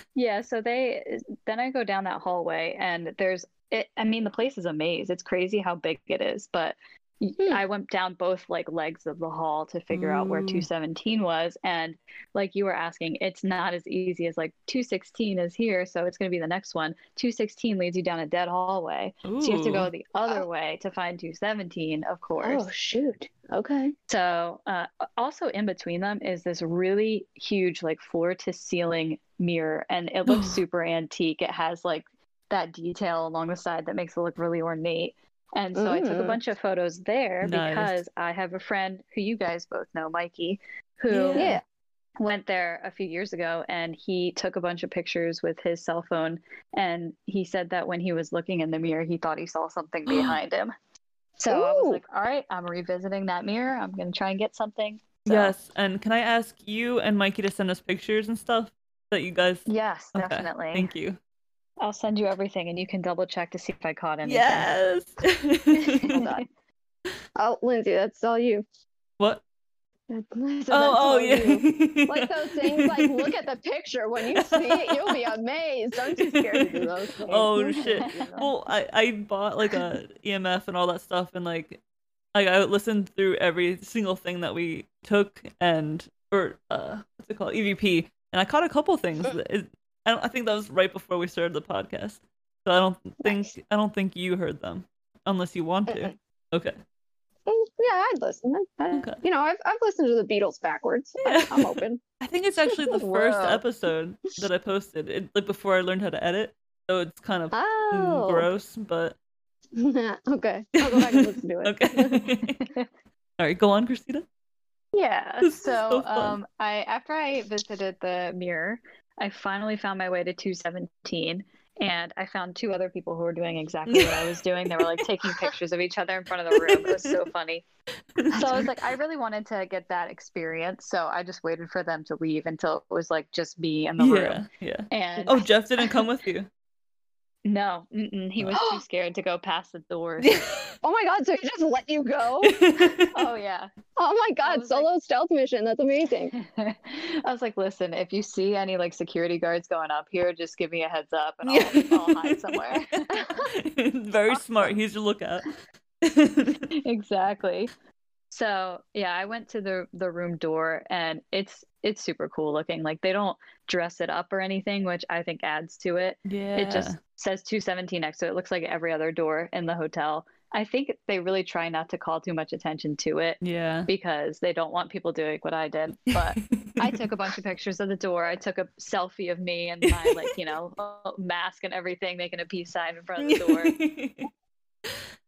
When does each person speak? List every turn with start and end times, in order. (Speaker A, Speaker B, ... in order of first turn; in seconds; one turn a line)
Speaker A: 0.1-22.7
Speaker B: 9.9-10.7
Speaker B: 19.2-19.9
Speaker C: 22.4-23.9
Speaker A: 24.1-41.6
Speaker B: 30.3-30.6
Speaker C: 35.7-36.4
Speaker B: 37.4-38.0
Speaker B: 41.1-41.6
Speaker C: 41.3-41.6
Speaker A: 42.2-50.7
Speaker B: 50.0-50.4
Speaker A: 51.4-55.5
Speaker C: 51.5-52.0
Speaker B: 55.2-61.2
Speaker A: 59.7-60.9
Speaker A: 61.8-64.7
Speaker B: 64.2-66.2
Speaker A: 65.8-66.2
Speaker C: 66.1-66.5
Speaker C: 67.3-68.6
Speaker C: 70.1-78.4
Speaker B: 70.7-73.3
Speaker B: 74.3-75.3
Speaker B: 76.1-81.8
Speaker A: 77.6-78.5
Speaker B: 82.3-96.8
Speaker C: 93.2-93.5
Speaker C: 95.9-96.1
Speaker C: 97.5-102.0
Speaker B: 98.9-99.2
Speaker B: 101.2-109.2
Speaker C: 102.7-102.9
Speaker A: 102.9-103.6
Speaker C: 107.5-108.5
Speaker C: 109.7-112.2
Speaker B: 110.8-112.7
Speaker B: 113.4-114.2
Speaker A: 114.9-127.6
Speaker B: 115.4-116.4
Speaker B: 123.9-124.4
Speaker B: 126.5-127.2
Speaker B: 128.2-128.7
Speaker A: 128.3-135.5
Speaker B: 134.0-136.5
Speaker A: 137.4-140.4
Speaker C: 138.5-138.8
Speaker B: 140.2-140.7
Speaker C: 140.8-142.7
Speaker B: 142.4-143.1
Speaker A: 143.1-143.7
Speaker C: 143.9-146.3
Speaker A: 144.4-144.9
Speaker A: 146.3-153.4
Speaker B: 151.4-152.7
Speaker B: 153.4-155.5
Speaker A: 154.3-154.7
Speaker B: 156.0-156.7
Speaker A: 156.8-157.7
Speaker A: 158.3-183.7
Speaker B: 166.3-167.0
Speaker B: 173.4-173.9
Speaker B: 176.4-177.0
Speaker B: 179.9-180.3
Speaker B: 183.2-184.3